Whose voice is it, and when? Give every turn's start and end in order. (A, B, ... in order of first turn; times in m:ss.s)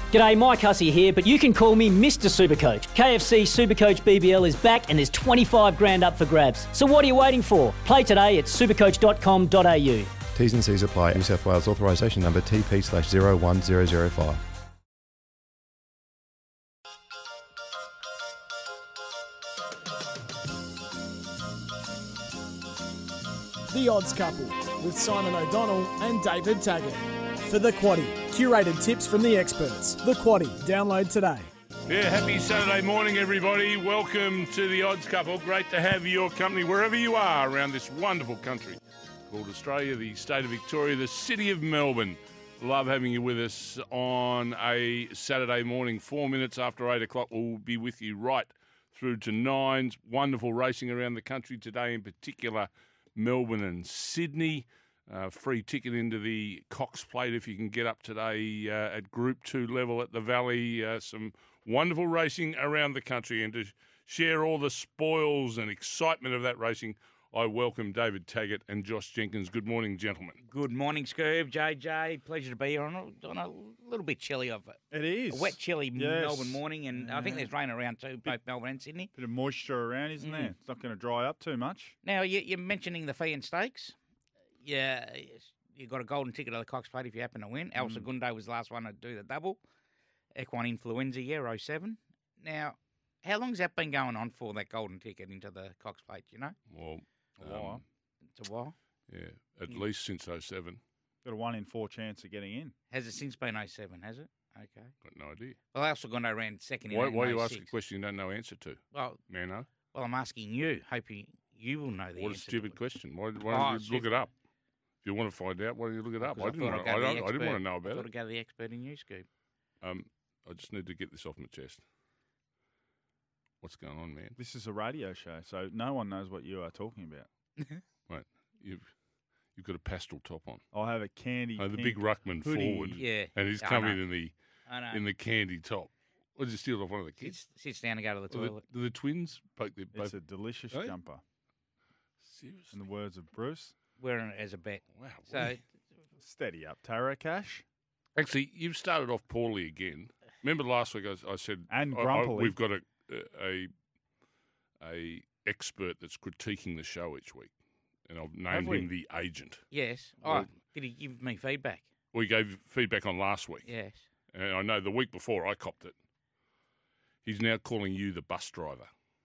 0:00.1-0:10.1 A
0:10.3-0:14.4 B
0:23.7-0:31.5 C
0:31.9-1:10.4 D
1:10.4-1:14.8 E
1:14.9-1:17.5 F
1:15.3-1:19.1 E
1:19.1-1:22.0 F
1:20.2-1:20.5 E
1:22.0-1:24.0 E
1:24.6-1:29.6 E
1:27.8-1:28.0 F
1:30.4-1:36.6 E
1:36.7-1:37.8 D
1:37.4-1:37.8 F
1:38.3-1:38.7 E
1:39.1-1:40.8 D
1:41.2-1:42.7 F
1:42.9-1:44.9 E
1:45.0-1:45.6 D
1:45.7-1:47.7 E
1:46.9-1:49.7 D
1:48.9-1:49.2 E
1:49.9-1:52.8 E
1:52.2-1:54.3 D
1:53.5-1:54.1 E
1:55.0-1:58.1 D
1:56.2-1:59.3 E
1:59.8-2:01.8 D
2:03.6-2:04.4 D
2:04.4-2:07.3 F
2:08.1-2:08.9 D
2:09.5-2:10.6 D
2:10.7-2:13.0 F
2:11.6-2:14.3 D
2:13.0-2:14.0 E
2:14.7-2:15.0 E
2:14.9-2:17.4 D
2:17.2-2:18.6 E
2:18.3-2:20.2 D
2:19.9-2:21.2 F
2:22.2-2:22.8 D
2:22.7-2:23.7 F
2:24.0-2:25.6 E
2:24.9-2:25.5 D
2:26.2-2:27.6 F
2:28.2-2:33.7 D
2:31.7-2:32.6 F
2:34.8-2:37.5 D
2:38.1-2:39.6 D
2:38.5-2:38.9 F
2:39.7-2:41.9 E
2:40.2-2:40.5 D
2:42.1-2:43.7 D
2:43.6-2:44.0 E
2:44.3-2:45.9 D
2:47.2-2:48.9 D